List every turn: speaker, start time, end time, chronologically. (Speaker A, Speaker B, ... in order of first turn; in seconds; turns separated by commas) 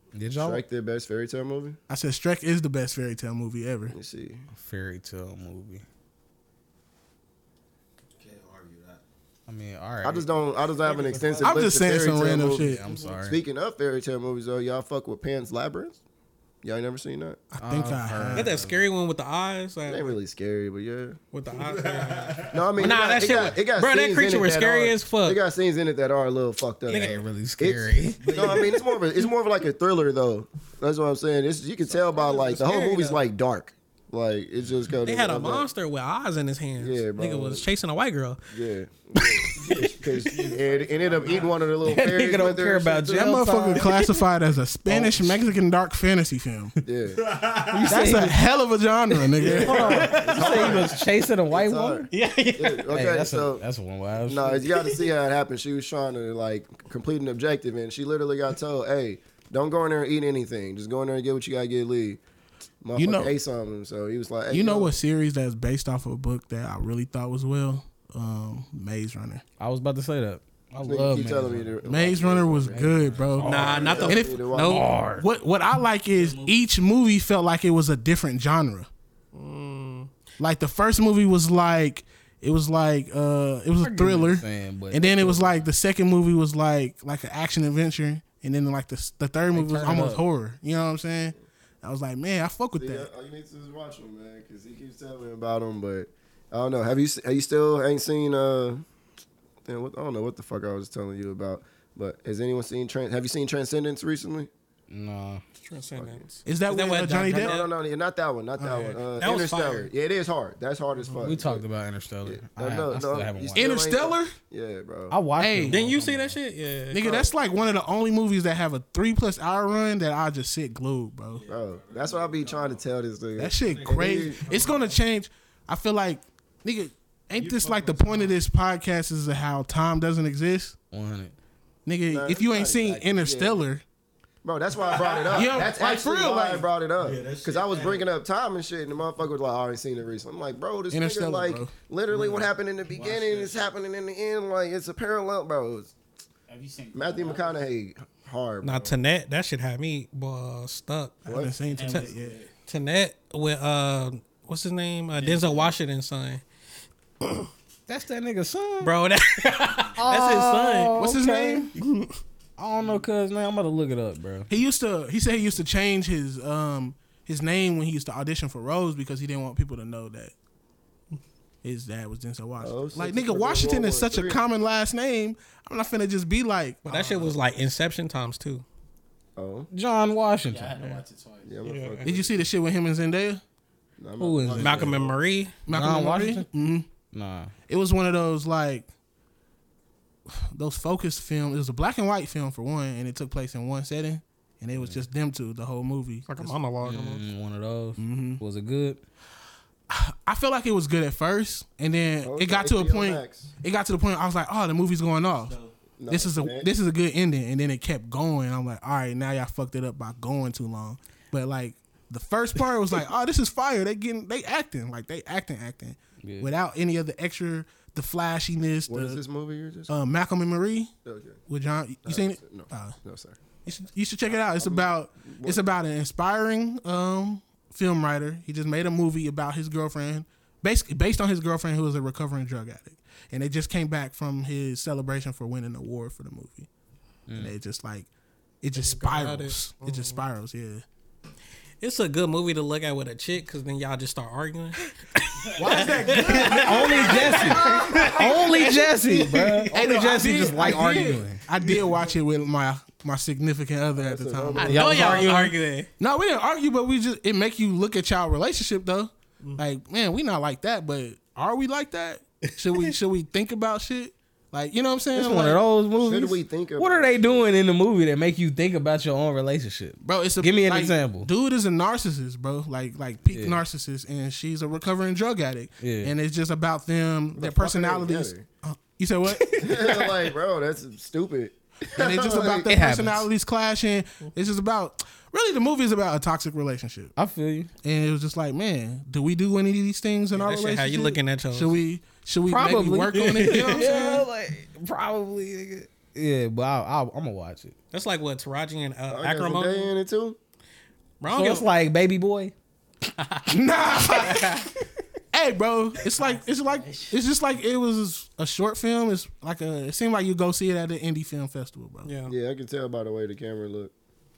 Speaker A: 0.1-0.6, Speaker B: 0.4-1.8, Speaker C: 1.9-3.9, Speaker B: 3.9-4.5, Speaker A: 4.5-5.8, Speaker D: 8.2-9.0, Speaker A: 9.5-10.3, Speaker B: 10.0-12.7, Speaker A: 10.9-11.6, Speaker E: 11.1-11.4, Speaker C: 11.4-12.9, Speaker A: 12.6-13.4, Speaker E: 12.9-13.1, Speaker B: 13.3-16.0, Speaker B: 16.6-17.4, Speaker C: 17.5-18.5, Speaker A: 17.6-18.8, Speaker F: 18.3-20.1, Speaker B: 19.9-21.2, Speaker F: 21.3-25.4, Speaker D: 21.5-23.0, Speaker B: 22.5-35.6, Speaker A: 26.9-28.3, Speaker F: 26.9-27.2, Speaker D: 28.2-29.0, Speaker F: 31.9-33.2, Speaker F: 35.0-38.4, Speaker B: 36.8-37.6, Speaker B: 38.5-43.3, Speaker D: 39.6-40.6, Speaker E: 39.9-41.5, Speaker D: 41.2-41.5, Speaker A: 41.8-44.2, Speaker C: 43.1-46.7, Speaker A: 44.9-45.4, Speaker B: 46.8-47.2, Speaker D: 47.2-47.9, Speaker A: 47.7-48.4, Speaker C: 47.9-50.2, Speaker A: 49.4-52.1, Speaker B: 49.4-50.9, Speaker D: 49.9-51.0, Speaker F: 49.9-50.6, Speaker B: 51.5-53.6, Speaker F: 52.1-52.9, Speaker A: 52.9-54.6, Speaker B: 54.2-62.2, Speaker B: 62.8-65.0, Speaker C: 63.0-63.3, Speaker C: 64.5-69.4, Speaker A: 69.6-71.8, Speaker B: 70.8-72.9, Speaker C: 71.8-78.9, Speaker A: 72.7-75.3, Speaker D: 73.3-74.0, Speaker F: 73.4-74.8, Speaker B: 73.6-74.8, Speaker F: 79.3-80.1, Speaker C: 80.4-93.1, Speaker A: 83.8-85.6, Speaker A: 89.5-90.2, Speaker B: 92.8-98.8, Speaker B: 99.6-104.5, Speaker A: 104.9-105.4, Speaker F: 105.6-107.7, Speaker B: 106.0-106.2, Speaker C: 106.5-107.6, Speaker B: 107.2-111.6, Speaker C: 108.6-109.0, Speaker F: 109.0-109.9, Speaker A: 111.2-113.8, Speaker B: 112.2-115.2, Speaker C: 113.5-114.3, Speaker A: 115.1-116.4, Speaker C: 115.4-115.8, Speaker F: 115.7-117.0, Speaker C: 116.9-121.4, Speaker B: 117.0-117.3, Speaker D: 121.3-122.8, Speaker B: 121.5-124.4, Speaker C: 123.4-130.8, Speaker D: 123.6-125.0, Speaker D: 127.3-128.3, Speaker A: 130.9-131.3, Speaker C: 131.8-133.8, Speaker B: 132.1-133.6, Speaker B: 134.4-145.9, Speaker D: 134.7-136.5, Speaker C: 135.3-136.6, Speaker D: 137.0-138.1, Speaker C: 140.9-141.7, Speaker D: 142.1-143.7, Speaker E: 146.5-147.6, Speaker B: 146.9-148.9, Speaker F: 148.6-151.2, Speaker C: 151.2-152.4, Speaker B: 151.2-151.5, Speaker E: 151.7-152.5, Speaker F: 152.7-156.4, Speaker E: 155.1-155.7, Speaker F: 157.2-157.5, Speaker A: 157.9-158.9, Speaker F: 158.8-160.9, Speaker A: 159.9-161.7, Speaker C: 161.0-161.7, Speaker F: 161.7-162.2, Speaker A: 162.6-164.5, Speaker C: 164.5-170.3, Speaker C: 171.6-177.3, Speaker B: 172.6-174.4, Speaker F: 176.8-178.6, Speaker B: 179.4-179.7, Speaker A: 179.7-180.8, Speaker E: 180.5-181.5, Speaker B: 181.4-182.4, Speaker F: 181.6-182.0, Speaker C: 182.0-183.4, Speaker B: 184.0-185.2, Speaker A: 184.2-185.0, Speaker F: 184.6-185.5, Speaker C: 185.7-186.9, Speaker A: 185.7-186.4, Speaker A: 187.1-187.5, Speaker C: 187.7-188.9, Speaker C: 190.5-196.6, Speaker A: 194.8-195.0, Speaker F: 196.3-197.2, Speaker A: 196.8-199.0, Speaker C: 198.0-198.4, Speaker C: 199.9-205.5, Speaker B: 202.2-203.5, Speaker D: 205.3-205.7, Speaker B: 206.0-206.7, Speaker C: 206.1-219.2, Speaker A: 216.2-216.5, Speaker B: 218.9-219.9, Speaker C: 219.9-220.9, Speaker B: 221.0-221.4, Speaker C: 221.5-222.9, Speaker B: 222.0-223.4, Speaker C: 223.7-236.7, Speaker B: 224.3-225.6, Speaker A: 237.3-237.5, Speaker C: 237.4-238.1, Speaker C: 238.6-240.8, Speaker F: 238.7-240.2, Speaker F: 241.8-249.7, Speaker D: 245.6-248.4, Speaker C: 245.6-248.3, Speaker A: 246.4-251.4, Speaker D: 249.7-251.2, Speaker C: 249.7-255.3, Speaker B: 253.9-255.1, Speaker F: 254.5-255.9, Speaker A: 254.6-255.5, Speaker C: 256.0-265.6, Speaker A: 265.1-271.3, Speaker B: 266.0-267.5, Speaker C: 270.0-279.6, Speaker A: 273.3-273.6, Speaker A: 275.8-276.1, Speaker B: 277.3-278.4, Speaker A: 279.3-280.1, Speaker B: 279.6-282.7, Speaker C: 281.9-287.1, Speaker A: 282.7-283.2, Speaker A: 287.1-287.7, Speaker C: 287.8-294.2, Speaker F: 290.3-291.8, Speaker A: 292.5-297.7, Speaker F: 293.1-293.9, Speaker F: 297.9-299.9, Speaker B: 299.1-300.4, Speaker F: 301.2-301.6, Speaker A: 301.3-302.5, Speaker C: 303.5-304.7, Speaker A: 304.1-304.4, Speaker C: 305.3-312.1, Speaker E: 305.9-307.2, Speaker F: 312.0-312.3, Speaker B: 312.3-313.9